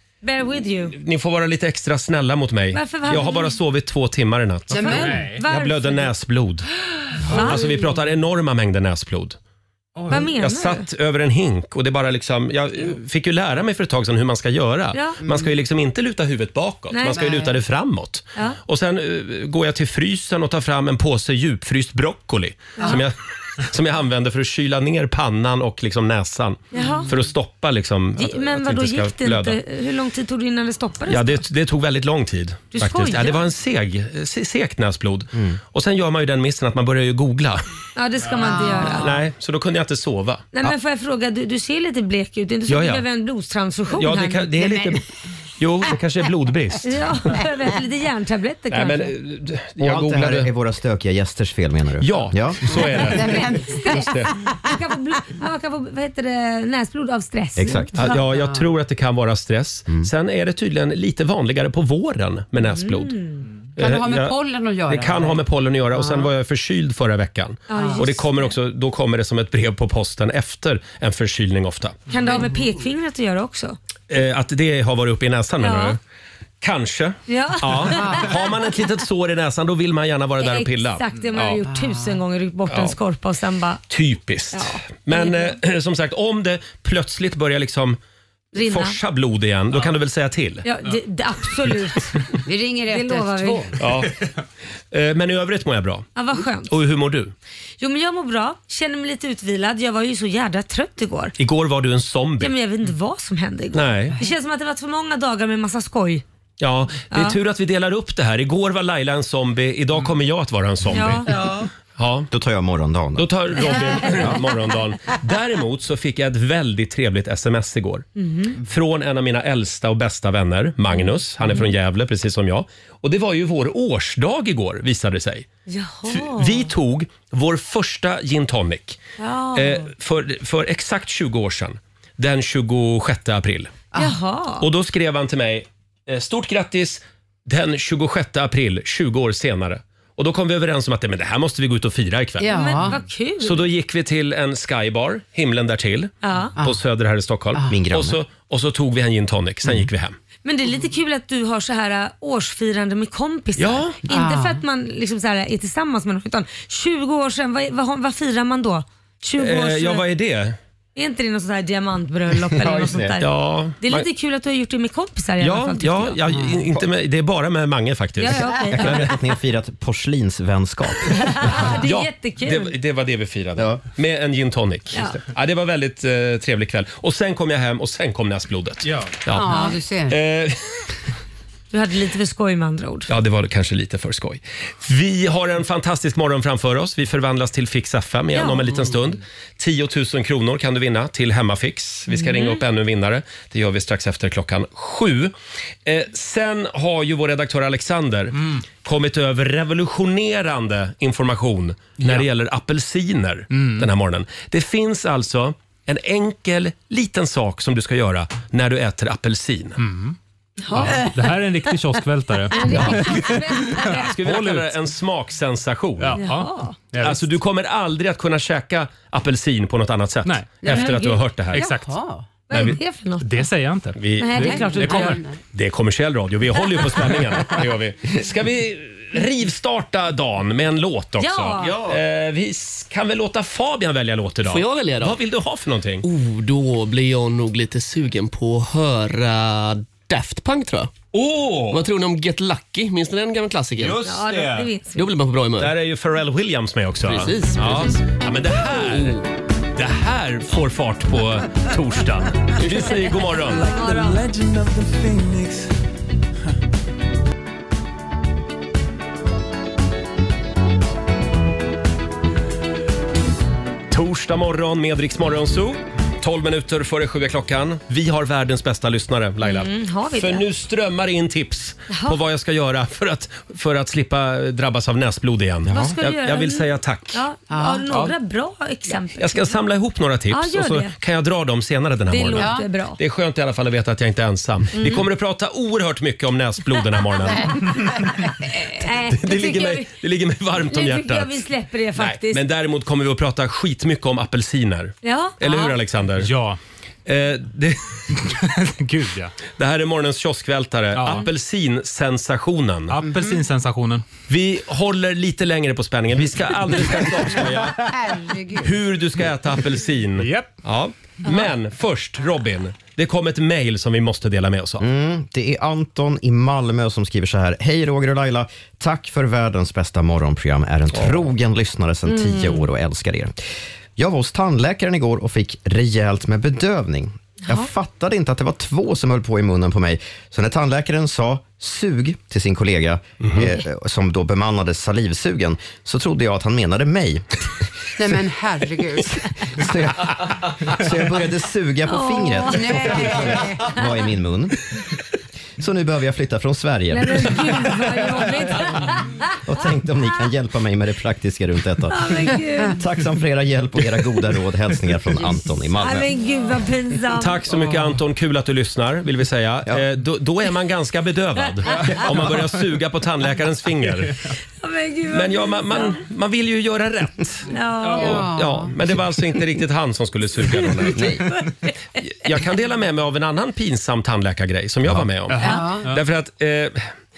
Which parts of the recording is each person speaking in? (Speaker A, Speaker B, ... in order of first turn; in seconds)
Speaker A: 0.2-0.9, 2.7-3.6, 4.8-6.1, 7.3-7.8, 10.1-10.8, 14.9-15.2, 16.9-17.2, 26.7-27.1, 28.2-31.4, 32.7-33.4, 38.0-39.1, 40.5-44.6, 46.8-49.1, 53.5-58.1, 62.6-63.5, 67.7-68.5, 72.1-73.8, 75.6-75.9, 77.3-78.3, 80.4-83.8, 84.5-85.5, 88.5-89.0, 90.6-92.3, 92.9-93.7, 96.2-96.7, 97.8-101.3, 102.4-106.2, 107.1-107.4, 110.9-111.4, 118.2-118.5, 120.9-121.6, 125.7-126.7, 129.2-129.9, 133.9-134.7, 142.5-143.7, 146.2-146.5, 150.4-160.0, 160.9-166.2, 168.2-169.1, 171.1-172.7, 181.7-183.1, 188.3-188.7, 192.1-192.6, 210.7-211.1, 212.5-214.1, 216.2-216.8, 220.7-221.2, 222.5-223.4, 224.2-225.2, 231.2-231.7, 244.0-245.1, 253.5-254.3, 269.4-270.4, 271.9-272.2, 275.7-279.5, 280.3-280.9, 282.1-283.0, 284.7-285.1, 288.7-289.9, 290.7-292.4, 295.0-295.7, 322.1-322.6, 341.9-342.9, 346.9-349.3, 351.9-352.8, 355.8-357.4, 364.6-366.0, 367.5-368.2, 371.3-371.7
Speaker B: 0.9-6.7, 7.3-9.4, 10.1-29.6, 31.1-37.6, 38.8-40.5, 42.7-43.0, 44.0-45.0, 45.6-47.1, 48.7-50.5, 52.0-54.3, 58.0-63.1, 63.8-64.3, 64.8-72.0, 74.1-76.0, 76.6-81.6, 82.7-83.0, 83.9-88.0, 88.6-90.6, 93.8-94.2, 94.9-97.3, 101.4-102.5, 103.7-104.2, 106.6-111.3, 112.0-112.3, 113.2-118.1, 118.6-125.5, 126.1-129.0, 129.5-133.7, 134.6-142.5, 143.4-150.2, 153.6-154.0, 159.4-160.6, 163.2-164.1, 165.4-168.5, 171.8-180.8, 183.1-195.3, 195.8-209.8, 213.8-216.2, 217.0-221.7, 222.5-222.8, 223.9-224.6, 225.5-236.0, 241.1-241.8, 243.8-244.7, 245.6-253.7, 263.9-277.2, 279.2-288.1, 289.1-296.3, 297.1-298.2, 299.6-302.9, 304.3-307.9, 308.6-314.8, 357.2-364.2, 365.1-371.1, 372.0-376.9
Speaker C: 4.7-5.2, 17.1-17.5, 26.8-27.1, 38.4-39.1, 52.9-54.2, 58.1-58.7, 63.8-66.3, 67.7-68.1, 72.2-72.5, 78.0-78.3, 81.6-82.2, 92.5-93.8, 111.3-111.7, 142.4-143.0, 154.1-154.6, 179.3-180.2, 212.5-213.0, 220.6-222.3, 224.4-225.3, 277.5-278.1, 282.4-282.7, 303.0-303.4, 307.8-308.8, 338.0-339.2, 342.5-343.8, 367.9-368.7, 375.4-375.9
Speaker D: 4.9-5.4, 178.9-179.2, 203.5-203.9, 209.8-210.2, 210.7-214.7, 216.0-217.3, 220.2-220.7, 221.5-221.9, 223.2-225.2, 296.2-296.6, 298.2-299.3, 300.9-301.3, 302.9-304.0, 310.2-310.5, 375.3-376.0
Speaker E: 49.8-53.2, 57.5-58.1, 112.3-114.4, 147.7-148.2, 162.5-163.2, 168.7-171.7, 275.6-275.9, 314.8-323.3, 324.0-337.2, 339.2-344.6, 345.6-347.6, 349.4-356.1, 361.9-362.1, 370.9-371.3
Speaker F: 234.4-235.2, 236.0-240.9, 241.7-244.1, 244.9-245.7, 247.1-248.2, 248.9-249.2